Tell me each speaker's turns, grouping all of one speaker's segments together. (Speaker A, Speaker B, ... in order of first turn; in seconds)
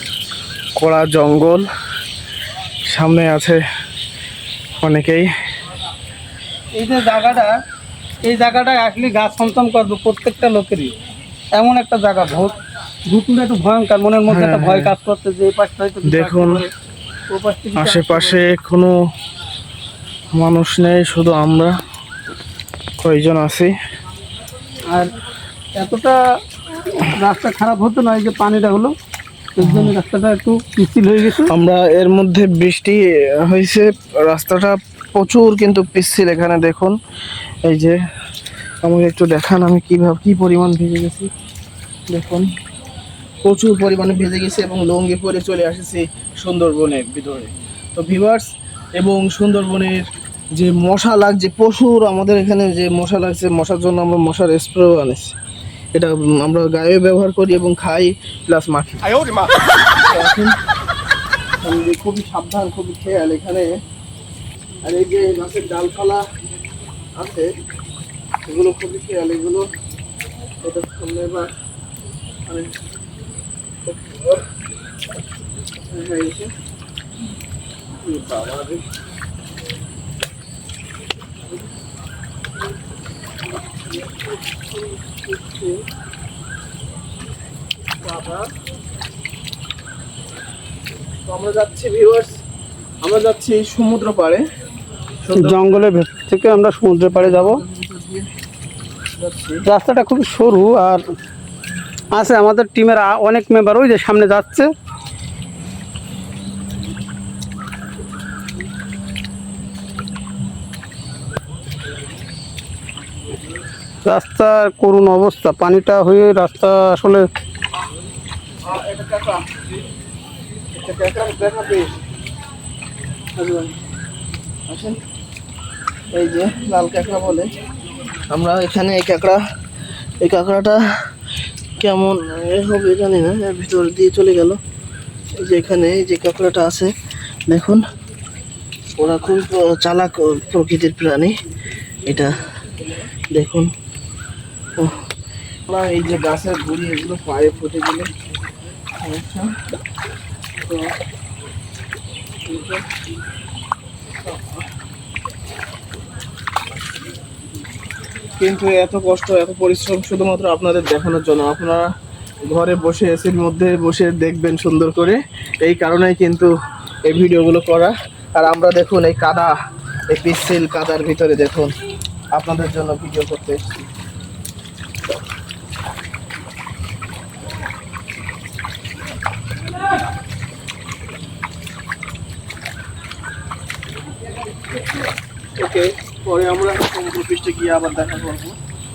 Speaker A: 0.8-1.6, 2.9-3.6, 4.8-5.3, 14.3-14.9, 16.0-16.6, 17.8-18.9, 20.3-21.7, 23.0-23.7, 29.6-29.9, 31.4-36.9, 37.7-38.0, 38.8-41.3, 42.1-42.5, 43.4-48.5, 49.0-50.0, 50.6-55.3, 56.0-59.4, 60.0-60.5, 61.6-63.7, 64.8-66.2, 67.2-67.5, 68.5-69.7, 70.6-71.5, 73.9-74.4, 75.9-76.5, 78.0-78.8, 85.0-85.8, 88.0-88.5, 91.3-92.3, 93.0-94.4, 95.2-95.6, 97.2-98.3, 99.2-99.6, 118.6-119.4, 120.7-121.9, 123.4-123.7, 124.7-125.0, 126.1-127.5, 128.3-129.4, 130.2-130.8, 131.8-134.6, 135.4-136.9, 137.5-137.8, 139.0-141.3, 142.1-142.3, 143.3-143.7, 145.7-148.1, 148.9-149.5, 152.5-152.8, 154.1-154.6, 158.4-161.9, 162.5-166.5, 167.1-169.5, 170.1-171.7, 172.3-173.9, 185.6-188.6
Speaker B: 6.8-7.5, 8.2-10.9, 11.6-12.5, 13.1-16.7, 17.3-18.4, 25.7-26.2, 26.9-28.9, 29.6-31.5, 95.3-97.6, 99.7-101.0, 102.1-104.7, 114.0-117.3